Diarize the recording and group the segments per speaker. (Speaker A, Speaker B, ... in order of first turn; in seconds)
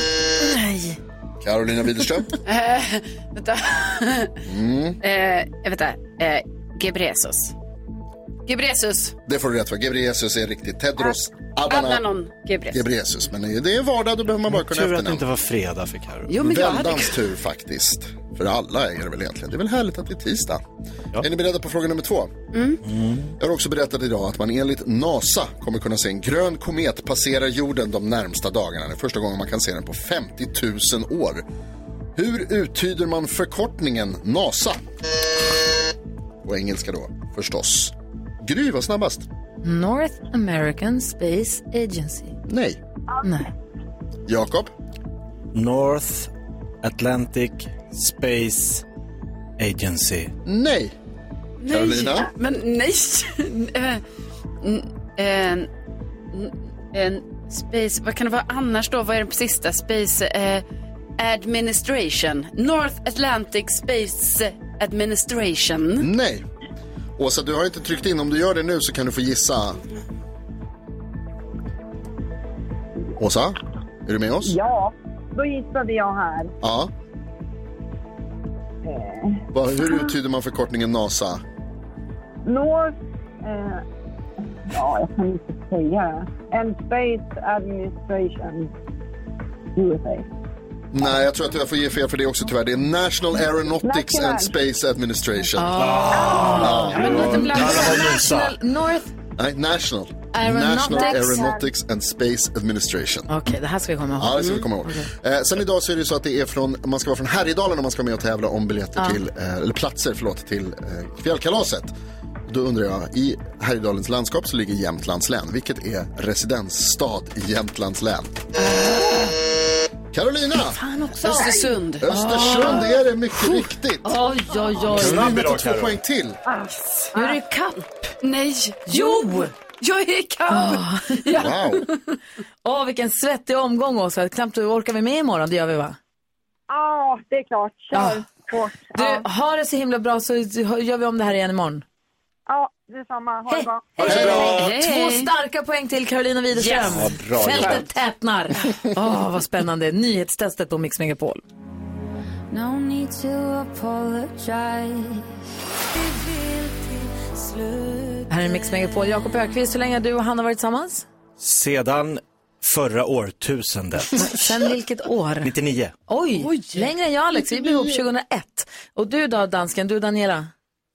Speaker A: 0.4-1.0, 39.6-42.4, 95.6-99.1, 100.3-101.5, 103.3-105.1, 120.8-122.9, 124.0-125.2, 127.1-128.1, 128.9-129.5, 130.5-131.3, 132.6-136.0, 137.9-138.2, 138.9-141.8, 143.5-151.4, 158.3-161.1, 164.2-165.5, 166.1-170.5
Speaker B: 1.4-2.3, 4.5-5.0, 9.2-12.0, 12.7-15.2, 16.4-20.6, 21.1-22.3, 23.4-31.4, 32.1-34.8, 36.4-39.3, 42.5-42.8, 44.3-44.7, 50.5-50.9, 51.7-52.3, 66.0-66.5, 67.2-69.8, 73.2-74.6, 76.6-76.9, 79.5-81.4, 90.9-95.9, 96.5-97.0, 99.3-103.3, 104.2-111.9, 112.5-118.3, 120.1-120.8, 122.0-124.1, 124.9-126.4, 131.3-131.9, 144.1-144.4
Speaker C: 2.4-4.4, 5.0-7.5, 8.5-9.1, 11.7-12.8, 16.3-17.2, 22.5-22.8, 51.6-54.0, 54.6-55.7, 56.3-60.6, 61.2-66.1, 96.3-98.1, 121.2-122.8, 128.2-132.0, 144.1-145.3, 146.5-147.0, 166.4-166.8
Speaker D: 14.5-16.4, 22.8-23.3, 45.5-46.3, 46.8-48.8, 49.6-50.3, 95.7-98.5, 124.9-125.9, 144.0-144.7, 146.8-147.8, 161.4-164.3, 165.4-165.9
Speaker E: 74.4-76.5, 78.8-79.5, 82.4-83.8, 84.7-88.7, 89.7-90.2, 93.8-94.5, 100.9-101.6, 126.5-127.3, 136.7-139.2, 142.5-144.0
Speaker F: 152.5-155.2, 156.2-158.2